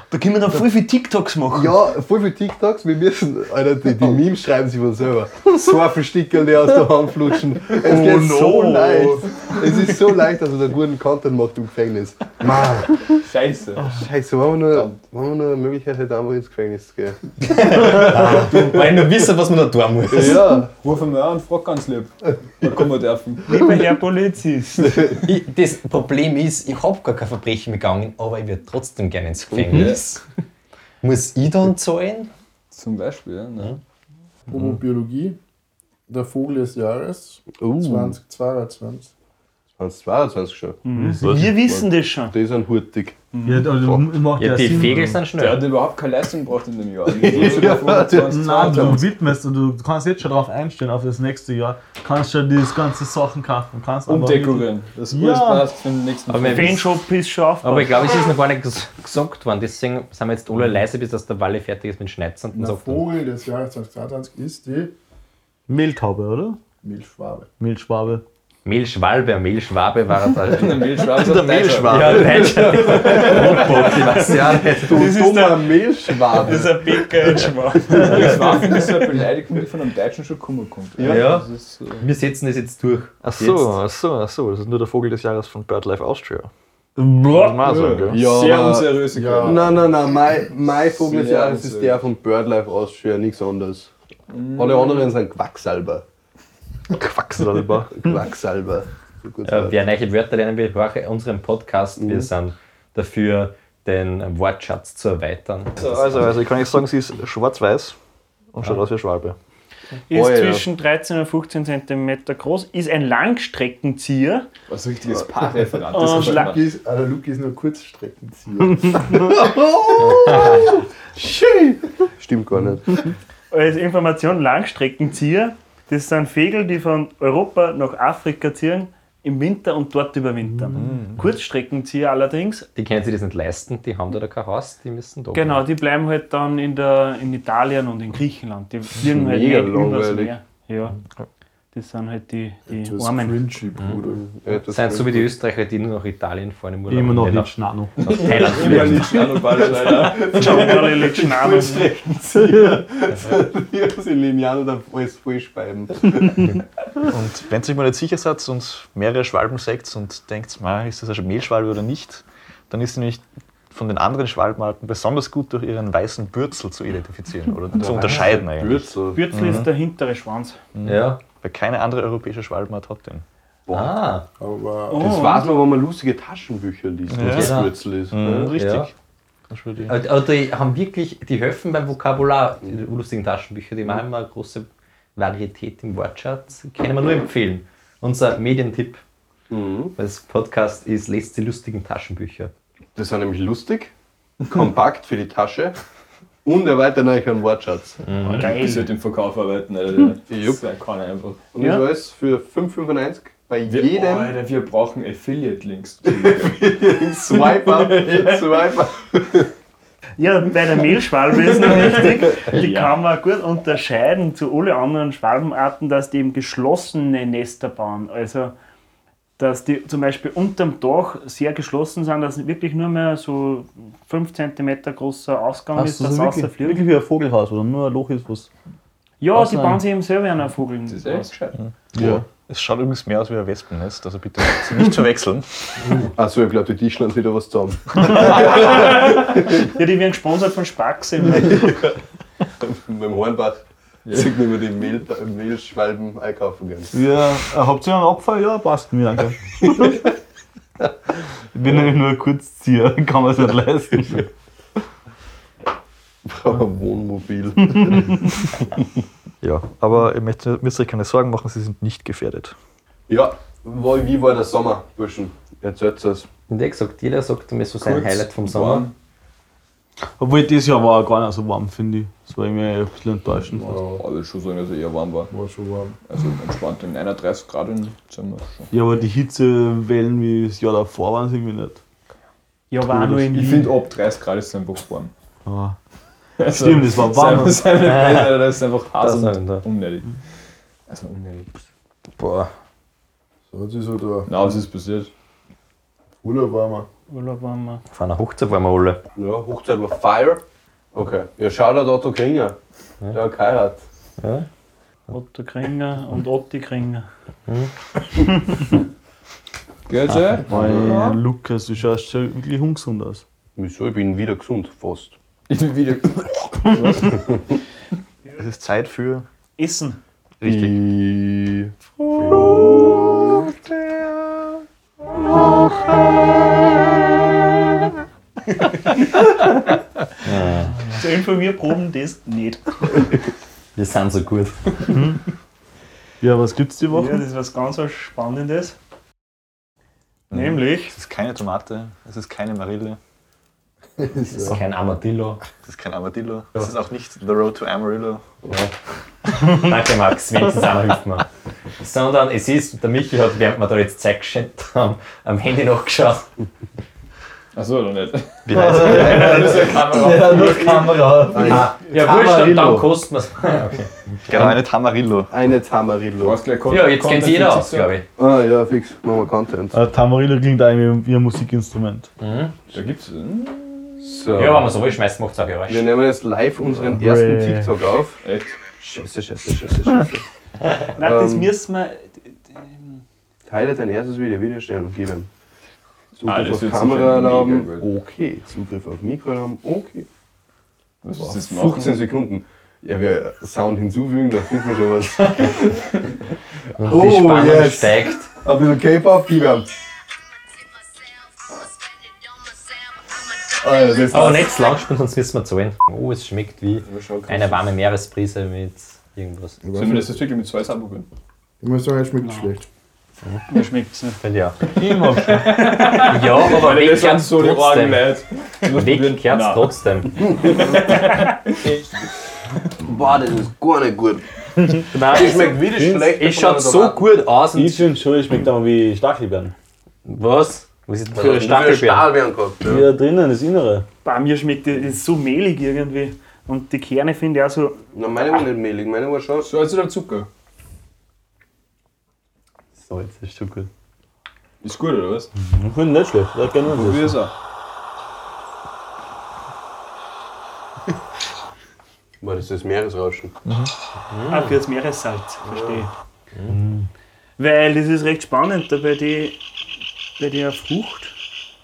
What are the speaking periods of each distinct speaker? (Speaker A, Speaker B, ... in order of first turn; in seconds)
Speaker A: 0.1-1.7, 7.7-9.3, 23.4-25.1, 40.8-42.4, 43.3-43.6, 56.5-58.1, 73.8-78.4, 110.1-114.5, 115.9-116.6, 123.5-132.7, 135.3-141.0, 141.7-143.5, 150.1-151.9, 169.1-170.6, 174.9-175.5, 198.3-198.9, 201.6-201.9, 210.2-218.5, 219.4-226.8, 229.2-231.4, 238.5-241.8, 282.7-283.8, 297.1-297.8, 305.1-307.1, 319.6-320.0, 322.4-322.9, 328.6-329.2, 330.8-333.1, 336.9-338.8, 340.3-340.9, 380.9-383.0, 412.2-412.6, 413.5-414.2, 415.6-416.1, 434.0-438.4, 454.3-455.9, 457.4-459.4, 460.2-461.1
Speaker B: 1.5-13.0, 13.8-17.2, 17.9-18.8, 20.1-20.7, 29.5-30.0, 37.5-38.2, 39.8-40.8, 42.3-43.2, 47.1-49.1, 73.1-73.6, 74.7-76.8, 81.0-81.2, 88.1-93.9, 94.5-96.0, 97.9-99.8, 102.0-102.3, 110.1-110.7, 121.2-123.1, 139.1-140.3, 144.2-145.3, 148.1-156.6, 167.7-169.5, 173.7-173.9, 175.0-178.5, 189.5-189.9, 192.9-193.9, 194.5-195.8, 196.4-198.0, 200.3-200.6, 201.5-204.3, 206.2-209.5, 231.9-232.2, 236.1-239.6, 242.6-246.9, 256.2-258.2, 263.1-266.3, 299.2-300.4, 300.9-302.6, 303.1-303.8, 310.5-311.1, 313.6-315.1, 320.4-324.1, 360.1-362.9, 365.3-366.4, 368.2-369.8, 374.0-374.7, 375.7-378.2, 378.8-380.2, 381.0-381.5, 383.5-385.3, 386.2-390.1, 391.2-395.9, 396.8-399.7, 403.6-404.4, 422.8-427.4, 431.1-432.9, 437.9-439.5, 442.9-443.6, 452.2-453.3, 455.5-455.8
Speaker C: 13.2-13.9, 20.2-23.5, 29.7-30.2, 32.7-33.8, 45.4-49.0, 54.1-56.7, 70.5-73.8, 78.0-82.1, 88.1-89.9, 91.0-92.0, 94.3-95.1, 114.7-116.6, 148.0-150.9, 198.2-201.4, 203.7-206.5, 207.4-208.4, 212.5-212.9, 230.9-231.5, 244.1-244.3, 267.8-268.9, 273.9-275.3, 276.1-278.7, 282.9-285.1, 286.4-290.2, 290.9-291.5, 294.3-295.1, 309.9-311.2, 315.5-317.2, 357.5-361.1, 366.2-368.0, 372.7-374.5, 378.2-378.5, 386.2-387.9, 391.0-392.0, 406.9-407.6, 409.8-411.1, 414.7-421.8, 439.4-440.3, 444.6-445.3, 446.6-447.3
Speaker D: 17.4-20.5, 25.2-30.2, 31.0-32.3, 44.4-45.7, 56.3-56.9, 57.6-63.1, 68.6-71.1, 71.8-75.1, 81.0-81.5, 82.0-83.7, 99.4-106.3, 120.0-120.7, 132.8-135.6, 144.6-149.3, 167.9-168.3, 170.8-171.2, 173.7-174.2, 177.2-177.8, 178.4-178.9, 179.9-189.0, 189.9-192.5, 198.0-198.5, 266.5-268.9, 287.8-288.4, 289.0-289.6, 292.2-292.5, 297.9-299.0, 304.2-304.4, 307.5-307.7, 330.2-330.8, 333.8-335.0, 344.2-345.4, 349.4-351.2, 351.8-356.3, 359.8-360.0, 361.4-364.6, 366.6-368.1, 372.2-372.6, 374.3-375.9, 396.8-398.3, 404.0-409.6, 414.2-414.6, 416.0-418.1, 418.7-420.2, 424.9-428.0, 430.1-432.1, 454.1-454.5
Speaker E: 34.5-35.4, 36.1-39.1, 62.5-64.9, 66.8-67.5, 87.7-87.9, 89.1-89.6, 116.0-119.3, 120.2-120.6, 142.7-144.6, 174.4-175.1, 273.3-274.0, 275.3-276.0, 293.5-294.6, 296.2-296.9, 344.1-344.6, 409.6-410.2, 411.6-412.6
Speaker F: 40.9-41.4, 43.4-45.2, 48.3-55.6, 65.7-66.6, 67.6-68.2, 87.0-87.5, 146.9-148.0, 225.8-228.5, 229.3-229.8, 246.9-249.4, 251.5-254.3, 270.2-273.7, 278.7-281.8, 285.4-285.8, 286.5-287.8, 310.5-313.2, 334.9-335.2, 336.2-337.2, 358.8-361.6, 369.7-372.1, 376.9-377.8, 414.8-415.4, 425.8-426.1, 427.5-429.5, 432.7-433.9, 445.4-447.2
Speaker G: 41.2-41.5, 71.2-72.6, 83.2-86.5, 87.3-88.2, 97.0-98.0, 105.8-108.0, 108.5-109.4, 130.8-131.2, 157.1-169.7, 170.8-173.2, 177.1-177.5, 178.1-178.9, 179.5-179.9, 231.9-235.9, 259.4-262.6, 318.4-319.2, 320.4-320.7, 340.3-343.0, 345.5-348.3, 358.4-359.6, 364.3-365.3